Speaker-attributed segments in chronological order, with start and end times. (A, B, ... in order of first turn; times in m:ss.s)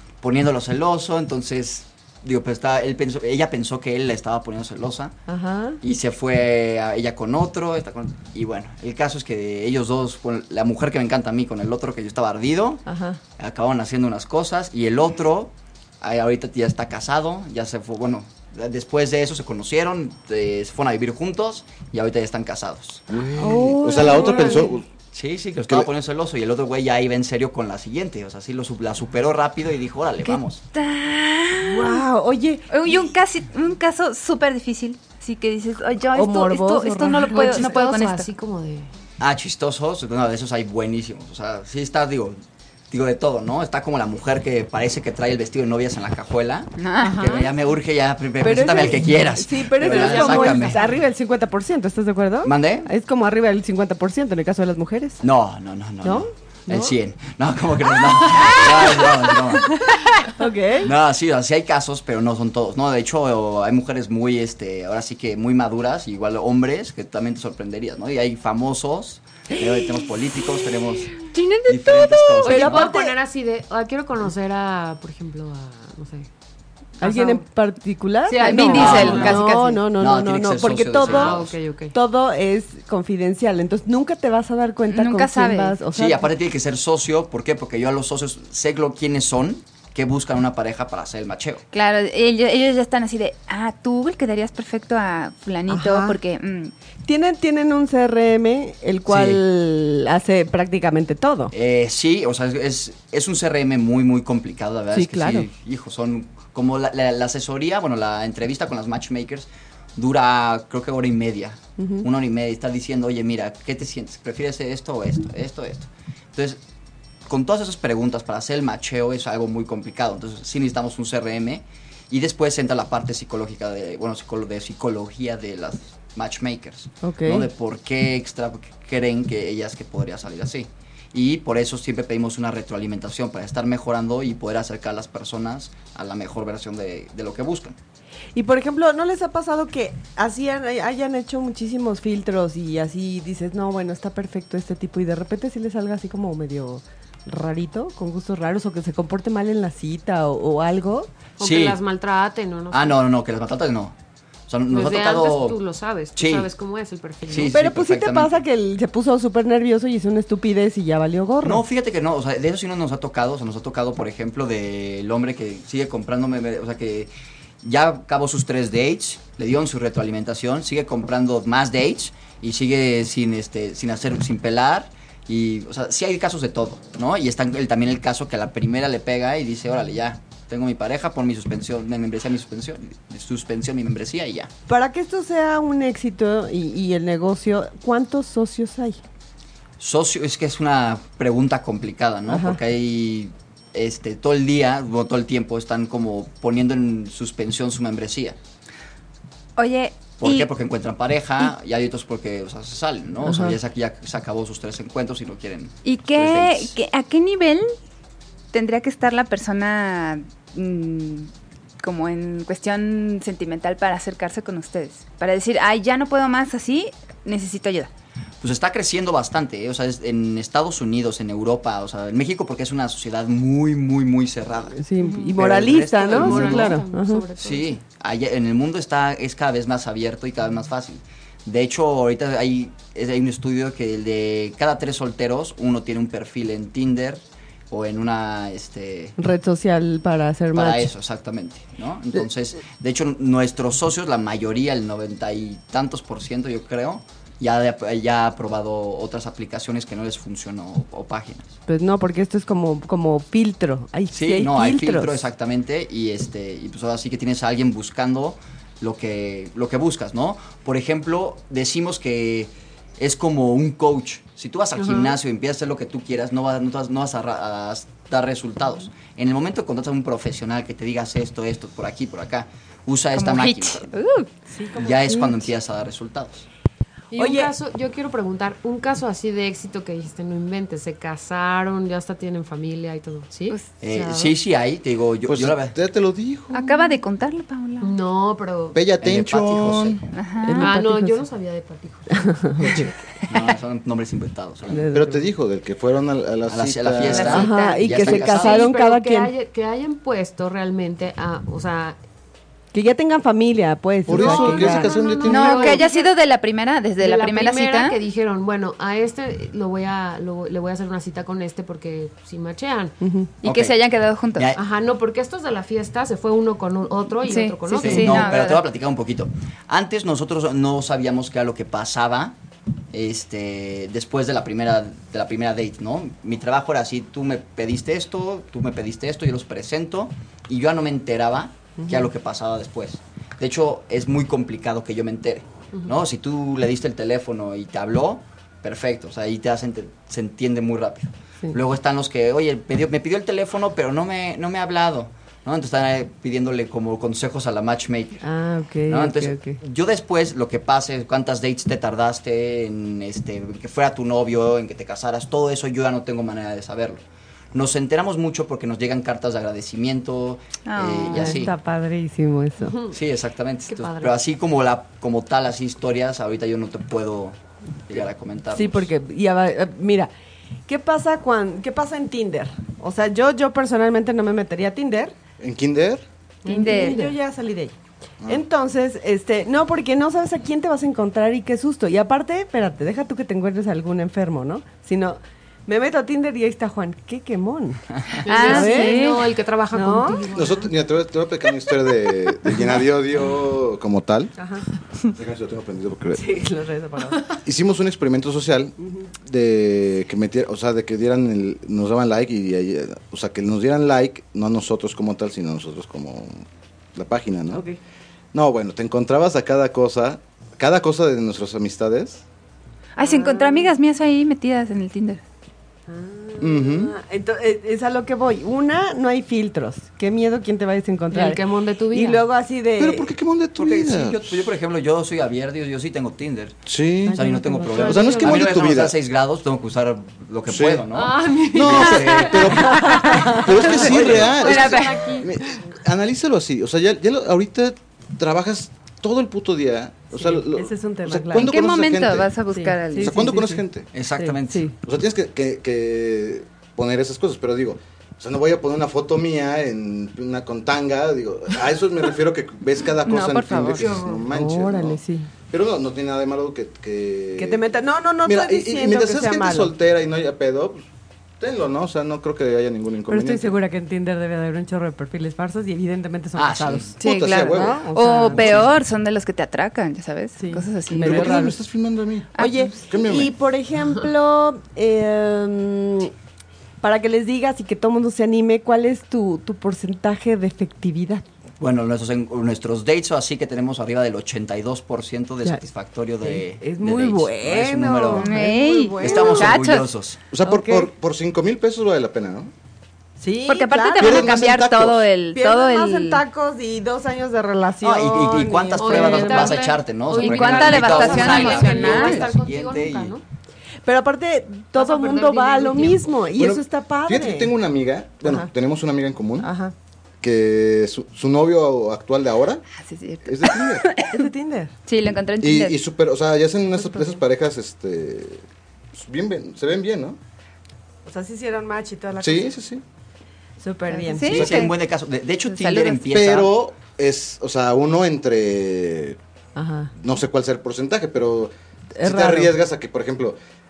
0:00.2-0:05.2 A
0:05.3-0:05.8 B
0:05.8-0:12.8 A
0:12.9-0:13.2 B
0:13.4-0:23.0 A
0:23.1-0:24.8 C
0:23.4-0:24.7 B
0:25.1-0:30.6 A
0:30.2-0:32.0 D
0:31.6-0:33.1 B
0:32.7-0:38.3 D
0:36.1-0:37.7 B
0:37.2-0:38.9 E
0:39.2-0:42.4 A
0:42.9-0:50.8 A
0:46.8-0:47.5 D
0:48.4-0:55.2 B
0:49.8-0:50.8 E
0:52.4-0:52.9 A
0:55.2-0:59.8 A
0:56.0-0:57.0 B
0:58.1-0:59.1 B
1:00.4-1:00.9 B
1:00.8-1:12.9 A
1:11.3-1:12.5 D
1:12.4-1:16.3 E
1:12.5-1:13.2 B
1:17.0-1:17.4 E
1:17.0-1:26.3 B
1:18.3-1:19.5 E
1:18.4-1:19.9 D
1:18.7-1:19.4 A
1:20.0-1:21.6 A
1:21.0-1:22.0 E
1:24.9-1:25.8 D
1:25.9-1:31.6 A
1:31.7-1:36.7 D
1:35.7-1:36.2 B
1:37.0-1:41.5 B
1:39.1-1:39.4 A
1:41.5-1:56.6 A
1:44.9-1:45.5 B
1:51.8-1:52.1 B
1:57.3-2:17.8 A
2:07.0-2:07.5 B
2:18.4-2:31.1 B
2:31.4-2:33.0 E
2:31.4-2:31.8 A
2:32.7-2:34.0 A
2:34.5-2:35.6 A
2:34.7-2:37.6 E
2:36.2-2:36.5 A
2:37.3-2:38.4 A
2:37.5-2:41.6 B
2:41.4-2:47.1 A
2:47.6-3:04.5 A
3:04.7-3:09.0 B
3:09.8-3:18.4 A
3:12.3-3:12.6 B
3:19.6-3:20.5 D
3:20.2-3:26.7 A
3:23.2-3:23.6 B
3:25.8-3:27.8 D
3:28.5-3:37.9 D
3:38.4-3:44.8 A
3:44.8-3:47.3 B
3:45.0-3:45.4 E
3:45.4-3:46.8 A
3:46.0-3:47.7 E
3:47.4-3:59.2 A
3:59.2-4:00.9 B
4:00.5-4:11.6 A
4:11.7-4:15.2 B
4:14.1-4:33.9 A
4:24.8-4:25.1 E
4:33.1-4:34.3 D
4:34.5-4:35.5 B
4:34.8-4:36.5 A
4:37.1-4:44.3 E
4:37.2-4:37.5 B
4:43.8-4:45.8 A
4:45.3-4:46.8 C
4:46.5-4:48.0 D
4:47.8-4:48.8 E
4:48.7-4:50.0 C
4:49.0-4:50.1 A
4:50.1-4:50.7 D
4:50.4-4:51.2 B
4:50.6-4:52.9 E
4:52.1-4:52.9 B
4:53.3-4:54.9 A
4:54.7-4:55.2 B
4:54.9-4:57.5 C
4:56.5-4:58.6 A
4:57.0-4:58.7 D
4:57.2-4:59.3 B
4:58.4-5:02.0 E
5:02.7-5:04.9 B
5:04.1-5:05.8 C
5:04.1-5:06.1 E
5:05.2-5:08.0 D
5:07.0-5:13.0 E
5:13.0-5:13.3 B
5:13.4-5:14.6 D
5:13.4-5:13.8 A
5:14.4-5:14.6 A
5:14.5-5:18.4 E
5:17.2-5:18.6 D
5:17.7-5:22.4 A
5:22.9-5:48.2 A
5:48.2-5:49.6 B
5:48.9-5:57.0 A
5:57.5-6:01.5 A
6:00.6-6:01.5 D
6:01.0-6:02.8 B
6:02.6-6:03.0 E
6:02.9-6:07.4 A
6:03.7-6:04.2 E
6:07.9-6:08.9 A
6:08.5-6:10.1 B
6:10.7-6:15.2 B
6:15.4-6:16.0 C
6:16.4-6:17.2 E
6:16.5-6:17.7 B
6:16.5-6:17.0 D
6:18.3-6:29.1 B
6:28.2-6:30.7 E
6:28.2-6:29.2 D
6:29.7-6:30.2 B
6:30.3-6:34.4 C
6:34.4-6:34.7 B
6:35.1-6:36.4 C
6:36.1-6:37.2 B
6:37.4-6:47.6 C
6:47.5-6:47.8 B
6:48.3-6:52.2 C
6:53.0-6:55.2 D
6:53.0-6:53.7 B
6:55.9-7:03.1 B
6:56.4-6:57.0 C
7:01.1-7:02.2 E
7:02.8-7:04.4 C
7:03.6-7:12.7 A
7:06.7-7:07.2 C
7:07.1-7:08.2 B
7:07.7-7:08.5 E
7:07.7-7:09.0 C
7:10.5-7:10.9 C
7:10.9-7:15.6 E
7:11.5-7:22.3 C
7:11.7-7:13.0 D
7:12.8-7:13.5 B
7:13.6-7:14.6 A
7:13.6-7:15.3 D
7:20.1-7:21.5 B
7:21.4-7:23.3 D
7:22.5-7:23.6 B
7:23.0-7:23.9 C
7:23.9-7:24.6 A
7:24.2-7:24.8 B
7:24.8-7:40.8 C
7:33.0-7:34.0 D
7:33.8-7:34.3 E
7:34.2-7:35.3 B
7:37.4-7:39.7 B
7:41.4-7:43.6 C
7:43.1-7:47.0 B
7:46.4-7:47.0 A
7:47.0-7:51.5 D
7:47.0-7:48.7 C
7:47.5-7:48.5 B
7:50.4-7:51.6 B
7:50.9-7:52.3 C
7:52.4-7:52.8 D
7:52.4-7:56.1 B
7:52.9-7:53.3 C
7:56.8-8:01.2 B
8:01.6-8:08.4 A
8:06.2-8:09.5 B
8:08.1-8:09.9 D
8:09.0-8:10.2 A
8:10.3-8:12.5 C
8:10.4-8:10.9 B
8:13.2-8:14.3 B
8:13.5-8:16.2 D
8:14.0-8:15.1 C
8:15.3-8:19.6 B
8:17.8-8:23.2 A
8:18.8-8:23.2 E
8:20.1-8:22.3 D
8:23.8-8:27.5 B
8:24.8-8:26.2 E
8:26.4-8:29.5 C
8:28.2-8:28.5 B
8:29.4-8:29.7 B
8:30.2-8:32.6 C
8:32.8-8:34.3 D
8:33.2-8:33.9 C
8:34.1-8:34.7 B
8:34.9-8:35.8 D
8:35.4-8:40.2 C
8:36.8-8:37.2 B
8:41.0-8:42.5 B
8:42.2-8:42.8 C
8:43.6-8:44.3 B
8:43.9-8:44.8 D
8:44.3-8:46.5 A
8:44.3-8:44.6 C
8:45.5-8:46.1 D
8:46.1-8:49.2 C
8:49.6-8:49.9 B
8:50.0-8:53.4 C
8:52.0-8:52.5 B